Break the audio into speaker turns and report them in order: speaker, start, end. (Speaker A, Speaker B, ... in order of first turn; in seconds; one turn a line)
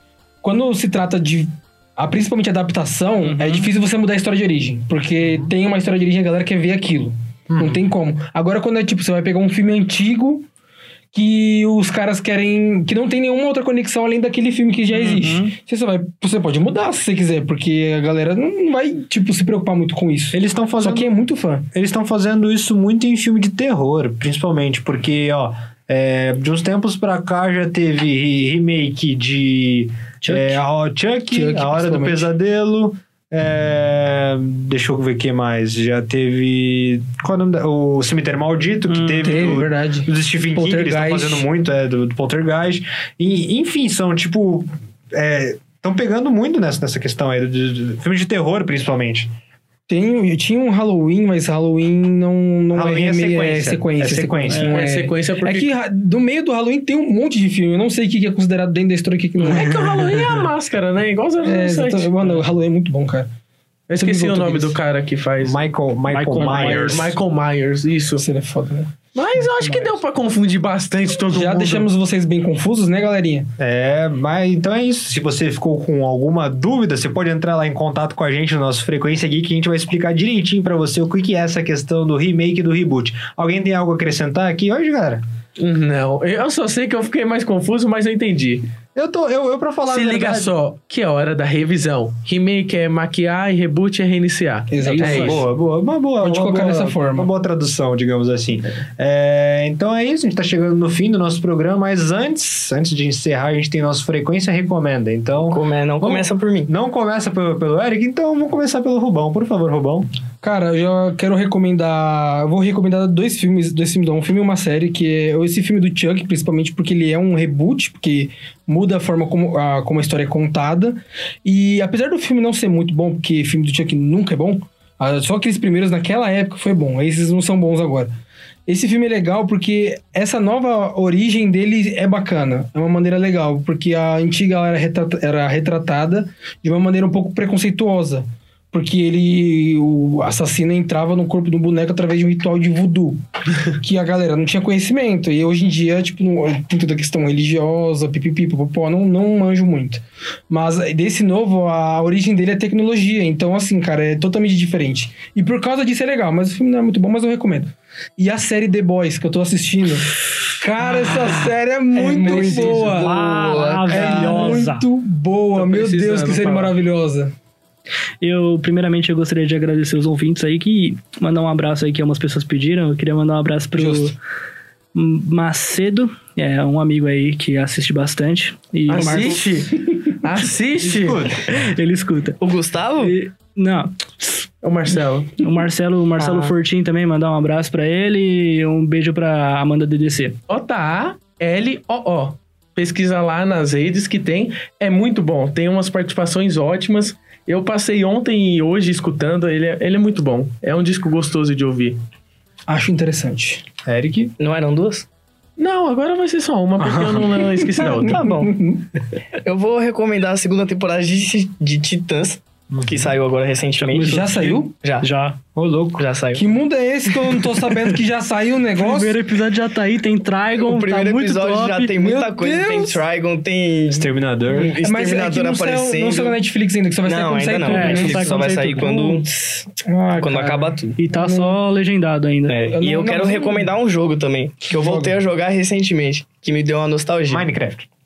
Speaker A: 0.4-10.4
Speaker B: 3.2-3.7
Speaker C: 5.2-5.5
Speaker C: 7.5-7.8
Speaker A: 11.1-21.6
Speaker B: 14.9-15.5
Speaker C: 20.3-21.1
Speaker C: 21.7-49.3
Speaker B: 30.2-30.6
Speaker A: 31.3-32.3
Speaker B: 38.9-39.6
Speaker A: 39.2-41.5
Speaker A: 49.9-59.7
Speaker C: 52.7-54.7
Speaker B: 54.5-54.8
Speaker D: 54.7-55.7
Speaker D: 59.4-62.1
Speaker A: 61.4-63.3
Speaker D: 63.9-65.6
Speaker A: 63.9-64.7
Speaker C: 65.4-67.2
Speaker B: 66.1-67.1
Speaker D: 66.4-68.2
Speaker A: 68.2-70.0
Speaker D: 69.1-71.9
Speaker A: 71.3-73.5
Speaker C: 73.6-85.2
Speaker D: 85.6-88.6
Speaker C: 88.9-90.5
Speaker D: 89.9-95.4
Speaker A: 94.7-95.4
Speaker B: 94.8-95.3
Speaker C: 95.0-110.1
Speaker A: 96.2-97.3
Speaker E: 105.5-106.7
Speaker A: 110.4-128.1
Speaker A: 128.7-163.1
Speaker E: 161.9-164.6
Speaker B: 162.2-164.8
Speaker A: 163.9-167.3
Speaker D: 165.5-166.7
Speaker B: 168.2-174.1
Speaker A: 173.8-174.1
Speaker B: 174.9-179.3
Speaker D: 178.9-181.3
Speaker A: 178.9-180.0
Speaker C: 180.8-181.4
Speaker B: 181.5-182.4
Speaker E: 182.4-183.1
Speaker B: 183.0-184.5
Speaker D: 184.6-185.3
Speaker B: 185.4-190.3
Speaker E: 186.2-186.5
Speaker D: 190.5-202.0
Speaker A: 202.7-203.6
Speaker C: 203.8-204.3
Speaker E: 204.4-205.1
Speaker D: 205.6-208.2
Speaker C: 206.8-207.4
Speaker A: 207.8-208.8
Speaker E: 208.1-208.5
Speaker E: 209.4-215.1
Speaker C: 212.7-213.1
Speaker A: 213.9-214.7
Speaker B: 215.0-215.4
Speaker C: 215.5-216.1
Speaker E: 216.0-216.4
Speaker A: 216.3-219.1
Speaker B: 218.8-222.0
Speaker E: 220.6-226.4
Speaker A: 222.0-223.0
Speaker C: 223.9-224.8
Speaker A: 224.8-229.2
Speaker E: 227.0-231.0
Speaker B: 227.6-228.9
Speaker A: 229.8-231.6
Speaker B: 231.0-232.7
Speaker E: 232.5-237.4
Speaker A: 232.7-233.7
Speaker A: 234.7-235.1
Speaker C: 237.3-237.9